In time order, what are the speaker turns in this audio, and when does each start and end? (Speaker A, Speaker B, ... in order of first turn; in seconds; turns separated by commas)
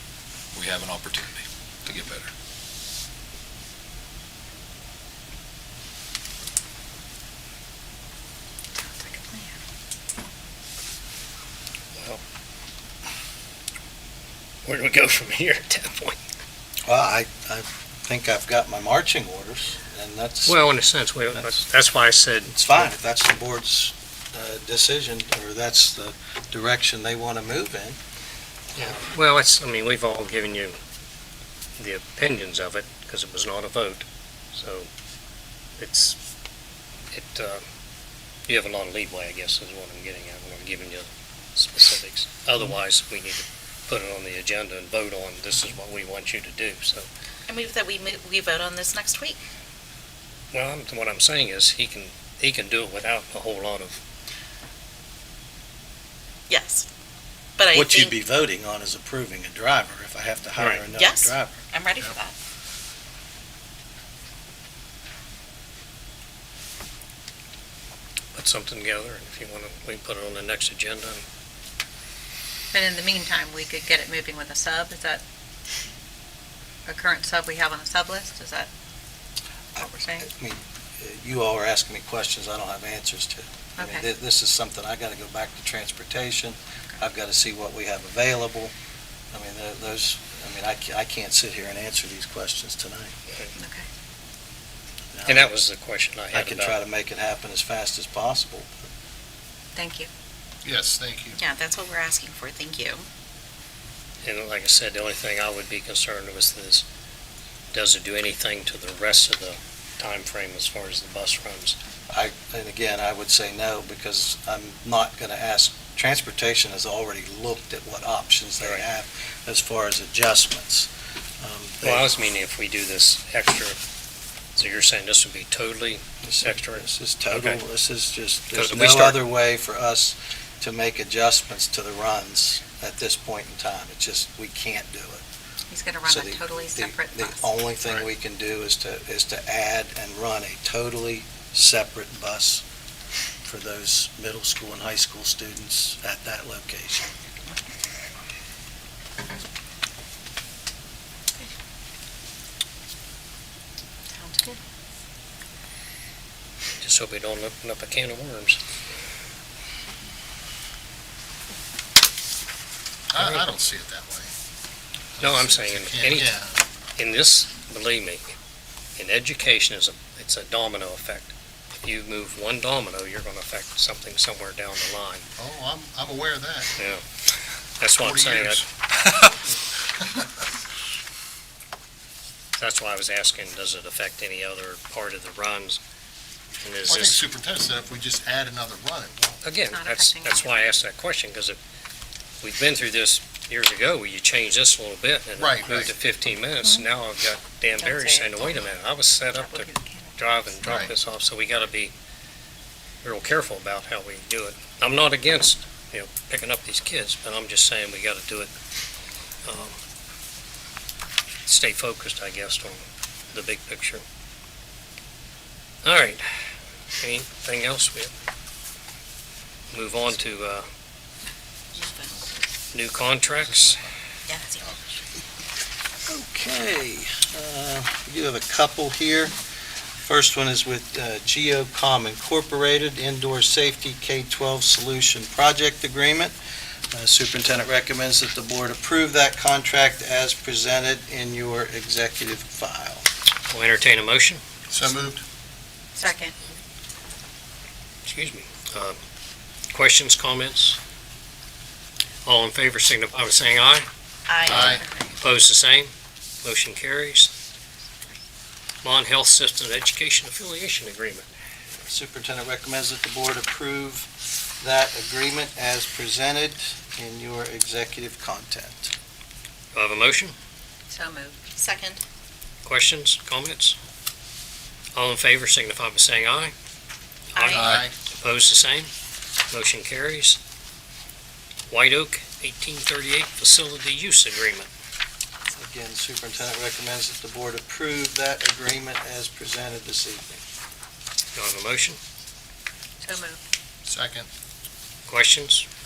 Speaker A: 0.5-2.3, Speaker B: 8.8-9.6, Speaker C: 14.6-16.2, Speaker D: 16.8-20.6, Speaker C: 20.4-22.9, Speaker D: 22.5-28.0, Speaker C: 28.8-30.8, Speaker C: 31.8-34.9, Speaker C: 35.8-36.2, Speaker C: 37.1-37.6, Speaker C: 38.5-47.1, Speaker E: 47.5-49.4, Speaker C: 50.5-54.0, Speaker E: 56.5-56.9, Speaker E: 57.6-58.1, Speaker D: 57.7-61.6, Speaker C: 60.6-60.9, Speaker E: 60.9-62.3, Speaker C: 68.3-71.2, Speaker B: 72.7-75.2, Speaker B: 76.9-78.7, Speaker D: 79.8-88.7, Speaker B: 79.8-80.2, Speaker B: 83.8-84.0, Speaker D: 89.3-93.1, Speaker B: 93.5-93.8, Speaker D: 95.1-95.5, Speaker C: 95.2-96.8, Speaker D: 96.3-98.7, Speaker B: 99.8-100.1, Speaker F: 100.6-101.4, Speaker E: 101.4-103.1, Speaker C: 104.2-106.8, Speaker C: 107.7-111.8, Speaker D: 112.1-122.1, Speaker C: 121.8-123.8, Speaker C: 124.5-127.6, Speaker D: 126.2-135.2, Speaker C: 128.5-129.2, Speaker B: 135.7-137.5, Speaker D: 136.1-142.6, Speaker D: 143.4-147.1, Speaker B: 154.1-154.6, Speaker C: 156.8-158.6, Speaker F: 163.1-164.3, Speaker C: 163.2-163.5, Speaker F: 165.2-166.6, Speaker C: 165.2-166.3, Speaker C: 167.0-168.2, Speaker C: 169.0-175.2, Speaker F: 175.4-176.7, Speaker C: 176.8-177.0, Speaker C: 177.8-178.7, Speaker F: 178.0-178.6, Speaker C: 182.6-185.8, Speaker C: 186.6-187.2, Speaker F: 186.8-189.4, Speaker C: 189.4-191.6, Speaker B: 189.6-190.7, Speaker C: 192.4-201.9, Speaker F: 195.4-195.9, Speaker B: 197.8-198.5, Speaker B: 199.3-200.8, Speaker F: 200.6-200.9, Speaker C: 203.0-208.5, Speaker C: 209.4-209.8, Speaker C: 211.4-214.0, Speaker C: 215.8-216.3, Speaker C: 217.0-218.1, Speaker C: 219.7-220.7, Speaker E: 221.8-222.2, Speaker C: 222.7-223.8, Speaker E: 224.3-224.7, Speaker F: 224.6-224.9, Speaker D: 226.1-229.3, Speaker D: 230.0-236.3, Speaker D: 236.9-243.1, Speaker C: 243.5-244.4, Speaker F: 244.7-245.2, Speaker B: 245.9-246.3, Speaker C: 248.0-249.0, Speaker C: 249.7-250.8, Speaker C: 252.2-253.9, Speaker E: 254.3-254.8, Speaker C: 254.4-257.3, Speaker F: 254.5-254.8, Speaker C: 258.8-261.3, Speaker D: 261.8-264.1, Speaker D: 264.6-268.9, Speaker C: 269.7-270.4, Speaker B: 270.9-271.4, Speaker E: 271.5-272.0, Speaker C: 272.6-273.8, Speaker C: 274.9-276.5, Speaker E: 277.3-277.8, Speaker F: 277.4-277.9, Speaker A: 277.6-277.8, Speaker C: 278.1-278.9, Speaker C: 279.5-280.4, Speaker C: 281.7-284.7, Speaker D: 285.5-290.4, Speaker C: 291.3-292.0, Speaker B: 293.0-293.4, Speaker F: 293.9-294.3, Speaker C: 295.1-295.6